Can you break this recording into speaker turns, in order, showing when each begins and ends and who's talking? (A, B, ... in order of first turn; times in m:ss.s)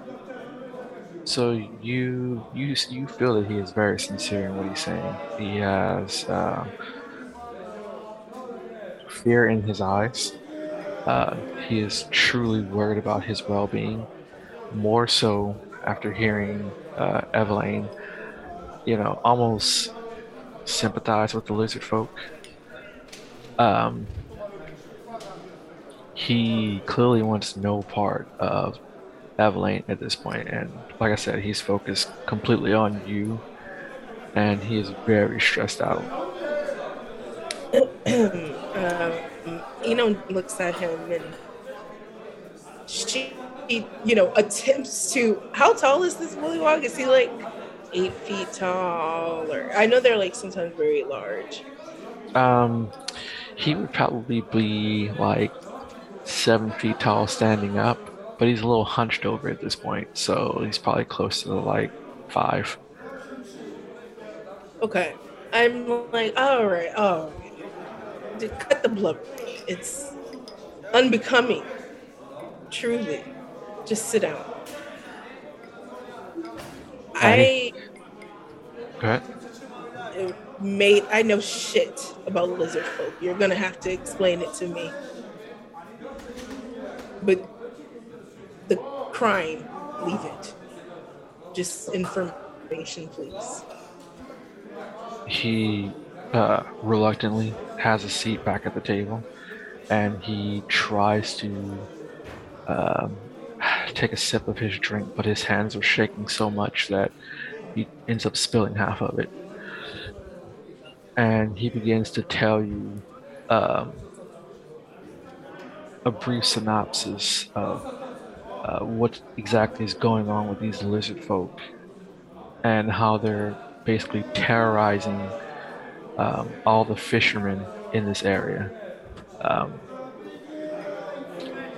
0:01.2-0:06.7 A
0:09.1-0:10.3 A
0:11.1-0:14.1 A
0:14.7-0:17.9 A
0:18.9-0:19.9 A
0:20.7-0:22.2 A
0:23.6-0:24.1 A
0:26.2-0:28.8 A
0:29.4-0:33.4 A
0:34.3-0:36.1 A
0:37.7-0:41.4 B
0:42.9-0:51.6 B
0:52.4-0:52.9 A
0:53.6-0:55.6 A
0:56.2-1:02.8 A
1:04.8-1:07.5 B
1:08.4-1:10.1 B
1:10.9-1:11.7 B
1:12.7-1:13.3 B
1:13.9-1:14.5 B
1:17.2-1:17.7 B
1:17.2-1:17.5 A
1:20.2-1:24.9 B
1:28.7-1:30.5 B
1:31.5-1:33.6 B
1:35.3-1:39.3 A
1:39.9-1:41.9 A
1:42.7-1:47.1 A
1:47.8-1:49.3 A
1:51.2-1:54.0 A
1:56.0-1:57.8 A
1:58.6-2:01.6 A
2:02.6-2:05.3 A
2:06.2-2:08.7 A
2:09.4-2:09.8 A